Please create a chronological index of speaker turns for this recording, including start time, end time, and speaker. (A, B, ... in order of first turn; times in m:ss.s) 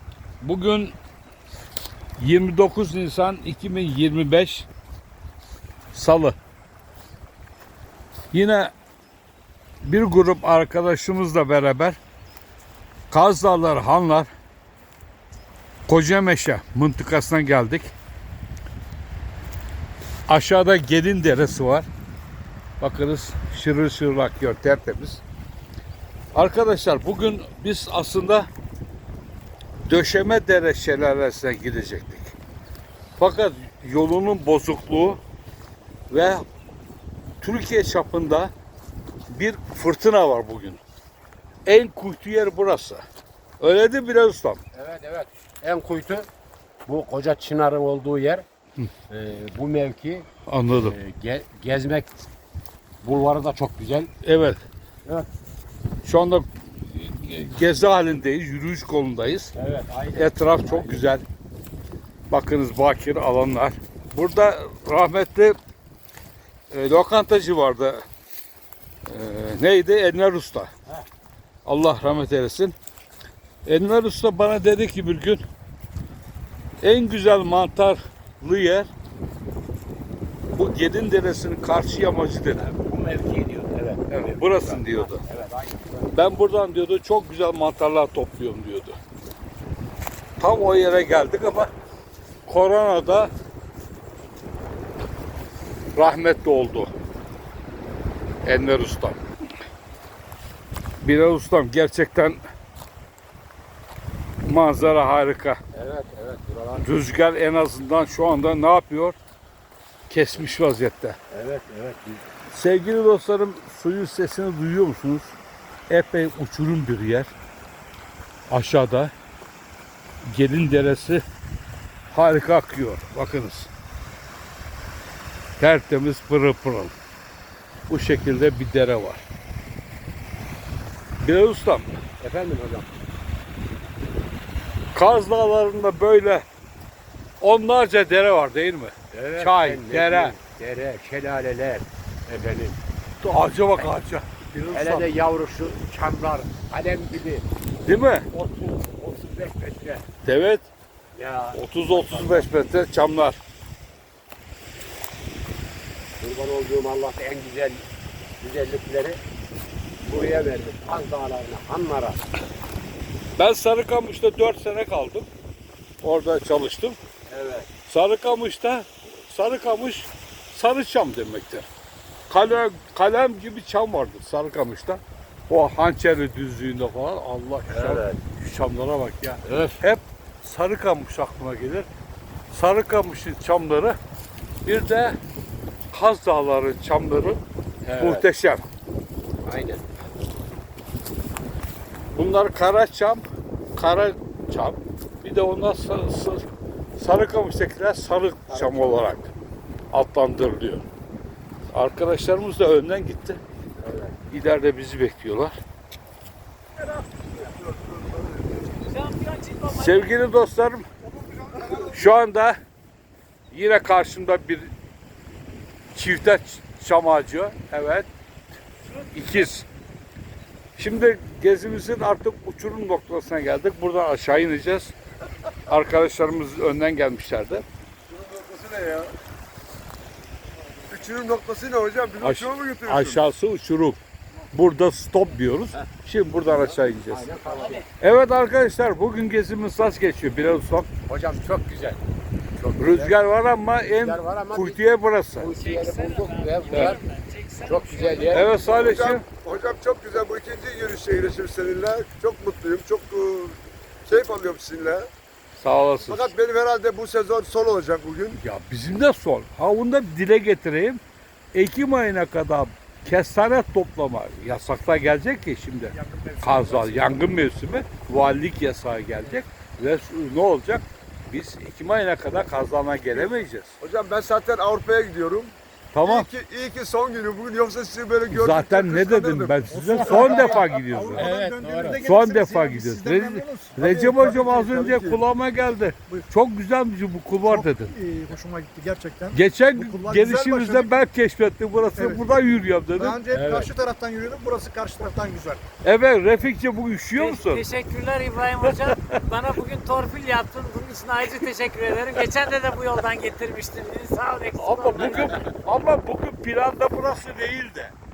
0:00.4-0:01.0 A
0:02.2-0:04.7 A
0:05.9-0:06.4 A
0:08.3-0:08.7 A
0:09.8-0:12.0 A
0:13.1-0:14.3 A
0:15.9-0:17.9 A
0:20.3-0:21.9 A
0:22.8-0:25.2 A
0:26.3-0:28.5 A
0:29.9-0:32.3 A
0:33.2-0:35.2 A
0:36.1-0:36.4 A
0:37.4-0:38.5 A
0:39.3-0:40.8 A
0:41.6-0:43.0 A
0:43.6-0:44.6 A
0:44.7-0:46.3 B
0:46.8-0:48.4 B
0:49.1-0:52.3 B
0:50.5-0:51.0 A
0:53.0-0:54.1 B
0:54.2-0:54.6 A
0:56.0-0:59.5 A
0:59.6-1:01.1 B
1:00.1-1:01.2 A
1:02.3-1:05.6 A
1:06.7-1:08.0 A
1:09.0-1:10.7 A
1:11.6-1:12.7 A
1:13.6-1:15.4 A
1:16.8-1:18.9 A
1:20.5-1:22.6 A
1:22.6-1:26.4 B
1:24.1-1:25.2 A
1:26.1-1:29.0 A
1:30.4-1:31.7 A
1:32.5-1:33.3 A
1:35.9-1:36.9 A
1:38.4-1:39.2 A
1:41.0-1:42.4 A
1:44.4-1:45.6 A
1:45.7-1:46.9 B
1:46.8-1:49.2 A
1:50.1-1:51.2 A
1:51.3-1:52.2 B
1:52.5-1:55.3 A
1:55.9-1:57.3 A
1:58.5-1:59.1 A
2:00.3-2:01.2 A
2:02.1-2:03.7 A
2:05.6-2:06.9 A
2:07.9-2:09.2 A
2:11.2-2:11.9 A
2:12.2-2:12.9 B
2:14.9-2:16.4 A
2:17.4-2:20.4 A
2:19.1-2:22.8 B
2:23.2-2:25.1 A
2:24.7-2:27.4 B
2:27.8-2:28.2 A
2:28.3-2:30.0 B
2:30.2-2:30.7 A
2:31.1-2:32.5 B
2:31.5-2:33.4 A
2:36.2-2:37.8 B
2:38.4-2:39.2 B
2:40.0-2:42.2 B
2:43.4-2:45.3 A
2:46.0-2:47.0 A
2:47.3-2:47.7 B
2:47.9-2:51.7 A
2:52.3-3:01.9 A
2:57.7-2:58.2 B
2:59.4-2:59.8 B
3:02.5-3:04.0 A
3:04.6-3:05.2 A
3:05.9-3:08.6 A
3:07.8-3:08.3 B
3:09.4-3:09.8 B
3:12.1-3:13.2 A
3:13.8-3:16.4 A
3:17.0-3:19.3 A
3:18.5-3:19.1 B
3:19.9-3:20.8 A
3:21.7-3:23.4 A
3:23.8-3:24.1 B
3:24.3-3:25.6 A
3:27.4-3:28.6 C
3:28.8-3:30.1 D
3:29.7-3:30.8 A
3:31.2-3:31.9 C
3:31.8-3:32.6 A
3:33.5-3:34.7 A
3:35.9-3:38.1 A
3:39.0-3:39.7 A
3:40.8-3:44.9 A
3:45.7-3:47.6 A
3:48.1-3:49.1 C
3:50.9-3:53.2 C
3:52.2-3:54.0 A
3:54.5-3:57.3 A
3:56.6-3:57.8 B
3:57.9-4:00.9 A
4:01.1-4:02.0 B
4:02.6-4:03.2 B
4:02.8-4:05.5 A
4:03.8-4:04.8 B
4:05.4-4:07.0 B
4:05.6-4:08.5 D
4:06.7-4:07.0 A
4:07.6-4:08.6 B
4:08.2-4:09.2 A
4:08.6-4:15.1 C
4:15.5-4:16.3 A
4:16.0-4:18.4 C
4:18.4-4:21.0 A
4:21.5-4:33.8 A
4:26.1-4:27.2 E
4:33.1-4:40.6 C
4:35.9-4:36.3 A
4:38.3-4:41.3 A
4:39.6-4:43.8 E
4:40.2-4:40.6 B
4:41.1-4:42.0 B
4:42.0-4:47.9 A
4:43.8-4:45.2 C
4:47.4-4:51.0 E
4:49.3-4:53.2 A
4:51.9-4:52.2 E
4:53.0-4:55.6 E
4:53.3-4:53.7 B
4:55.8-4:57.6 A
4:57.1-5:05.4 D
4:58.6-4:59.2 A
5:04.6-5:07.9 A